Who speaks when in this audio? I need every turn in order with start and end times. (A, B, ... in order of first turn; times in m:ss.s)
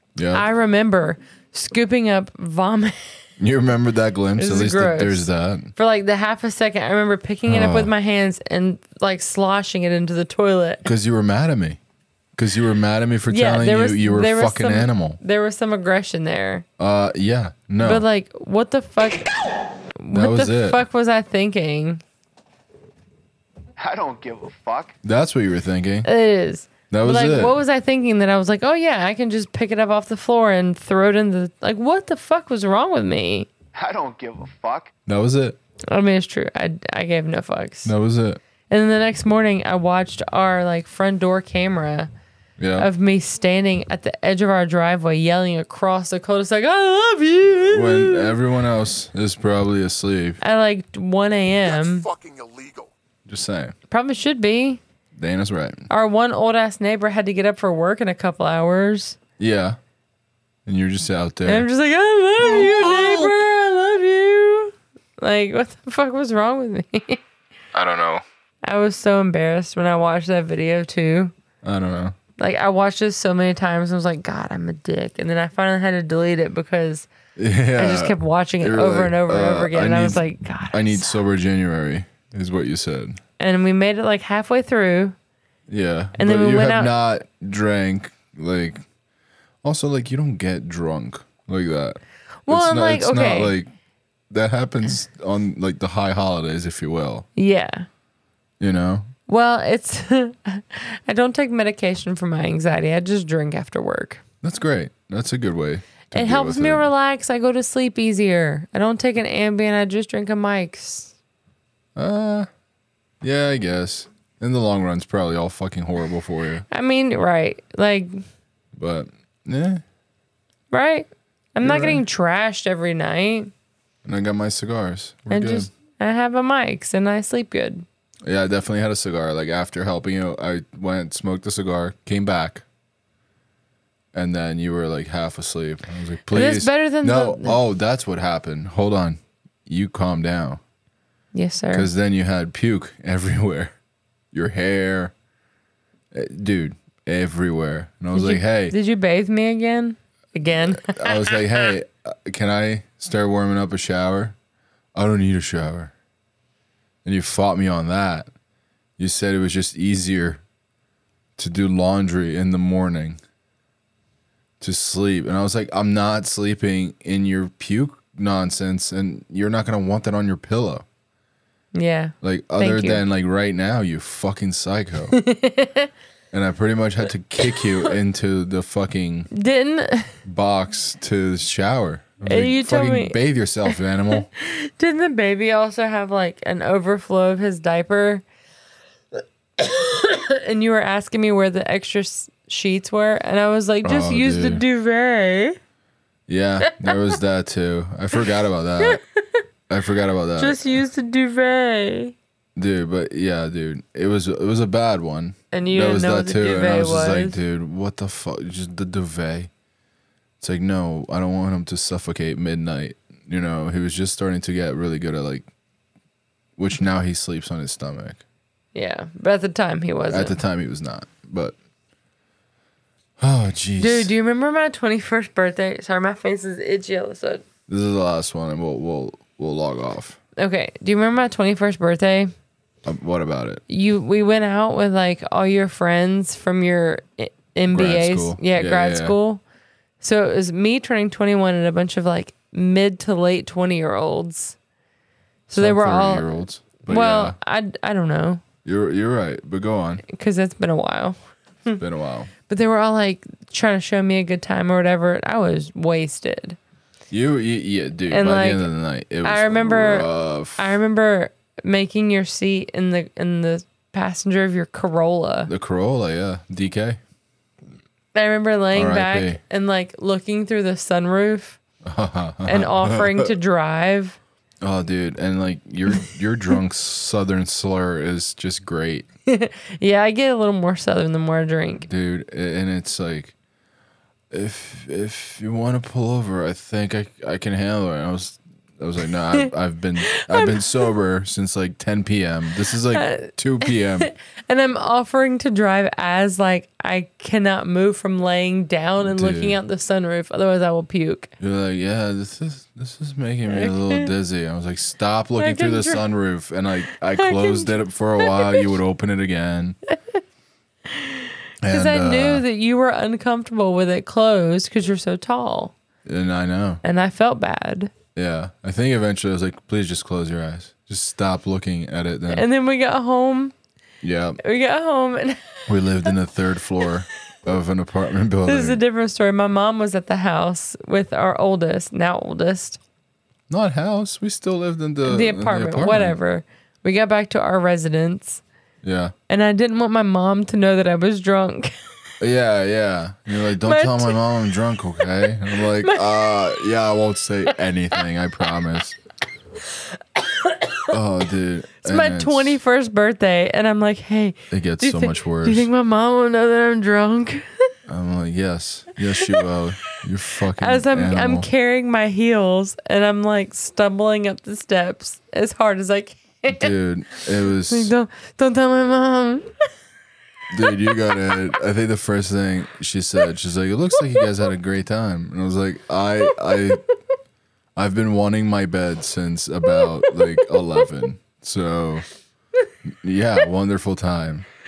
0:00.2-0:00.4 A
0:00.3-0:03.1 B
0:03.4-0:05.7 A
0:04.4-0:10.8 B
0:07.5-0:07.9 A
0:10.8-0:11.8 A
0:12.4-0:15.2 A
0:13.3-0:16.6 B
0:16.8-0:18.0 A
0:17.8-0:19.3 B
0:20.0-0:22.0 B
0:20.1-0:20.8 A
0:23.8-0:25.0 C
0:25.0-0:26.1 A
0:26.0-0:33.5 B
0:26.9-0:27.6 A
0:33.7-0:34.9 C
0:35.1-0:35.6 A
0:35.9-0:37.9 B
0:37.8-0:38.4 A
0:38.7-0:42.1 B
0:42.6-0:42.9 A
0:42.8-0:48.4 B
0:47.7-0:50.4 A
0:50.4-0:52.1 B
0:51.7-0:52.9 C
0:53.3-0:53.7 A
0:53.9-0:54.8 B
0:55.2-0:55.9 A
0:55.9-0:59.2 B
0:59.4-0:59.8 A
1:00.7-1:01.7 A
1:01.5-1:07.2 B
1:07.7-1:08.2 A
1:08.6-1:11.3 B
1:11.6-1:12.2 A
1:12.4-1:17.1 B
1:17.4-1:23.2 A
1:17.8-1:21.2 B
1:23.4-1:25.2 B
1:25.7-1:28.8 A
1:26.2-1:26.9 B
1:29.6-1:33.7 A
1:32.5-1:33.5 B
1:34.3-1:37.3 A
1:37.4-1:37.9 B
1:38.6-1:39.1 A
1:39.3-1:44.2 B
1:44.4-1:46.9 A
1:46.1-1:51.1 B
1:52.0-1:52.5 A
1:53.2-1:56.6 A
1:56.7-1:58.2 B
1:58.7-1:59.8 A
2:00.7-2:03.5 B
2:01.6-2:02.0 A
2:04.0-2:05.7 A
2:05.3-2:07.8 B
2:08.2-2:12.6 A
2:14.1-2:20.6 A
2:16.3-2:17.6 B
2:21.3-2:21.9 B
2:21.7-2:23.7 A
2:24.3-2:25.1 A
2:26.1-2:28.8 A
2:28.1-2:31.7 B
2:30.6-2:34.4 A
2:34.9-2:35.9 A
2:37.0-2:38.3 A
2:39.0-2:40.4 A
2:41.4-2:43.2 A
2:44.6-2:50.8 A
2:51.7-2:53.0 B
2:52.2-2:55.2 A
2:55.1-2:55.9 B
2:56.3-2:59.3 A
2:59.3-3:00.1 B
3:00.2-3:04.3 A
3:02.2-3:03.2 B
3:04.3-3:08.2 B
3:09.6-3:15.6 B
3:13.8-3:14.6 A
3:16.3-3:19.0 A
3:16.7-3:17.0 B
3:18.8-3:19.4 B
3:19.7-3:20.6 A
3:20.4-3:22.2 B
3:22.6-3:29.5 A
3:25.5-3:27.4 B
3:30.4-3:35.5 A
3:36.6-3:38.2 A
3:38.7-3:40.4 B
3:40.1-3:41.6 A
3:43.2-3:44.1 A
3:43.8-3:47.4 B
3:47.7-3:50.2 A
3:50.4-3:52.3 B
3:52.8-3:53.6 A
3:53.7-3:59.4 B
3:57.7-3:59.2 A
4:00.0-4:04.6 B
4:05.5-4:08.4 B
4:05.6-4:07.4 A
4:08.6-4:10.0 A
4:10.1-4:11.8 B
4:11.8-4:12.3 A
4:12.5-4:16.6 B
4:17.1-4:20.7 A
4:18.1-4:18.7 B
4:19.2-4:25.5 B
4:25.5-4:27.0 A
4:28.2-4:31.6 B
4:28.7-4:29.4 A
4:31.8-4:33.3 A
4:32.5-4:34.2 B
4:34.6-4:39.1 A
4:39.3-4:41.9 B
4:41.9-4:43.3 A
4:44.3-4:54.1 A
4:50.1-4:50.9 B
4:52.9-5:01.3 B
4:59.0-4:59.6 A
5:01.4-5:09.8 A
5:03.5-5:04.1 B
5:05.4-5:06.0 B
5:07.1-5:08.7 B
5:09.9-5:10.2 B
5:10.9-5:15.7 B
5:11.6-5:12.4 A
5:16.0-5:16.8 A
5:16.8-5:17.9 B
5:18.2-5:22.5 A
5:22.3-5:23.5 B
5:24.0-5:24.4 A
5:24.4-5:26.1 B
5:25.7-5:28.8 A
5:28.5-5:32.8 B
5:33.5-5:36.2 A
5:35.0-5:38.4 B
5:38.8-5:39.1 A
5:39.3-5:41.7 B
5:42.2-5:49.0 A
5:43.5-5:44.5 B
5:45.8-5:46.6 B
5:50.2-5:50.9 B
5:50.9-5:52.6 A
5:51.8-5:57.7 B
5:54.5-5:55.7 A
5:57.9-6:01.5 A
5:59.2-5:59.4 B
6:00.6-6:09.5 B
6:06.5-6:07.9 A
6:10.5-6:16.8 A
6:10.7-6:11.4 B
6:17.8-6:22.1 A
6:20.0-6:20.6 B
6:22.9-6:24.5 A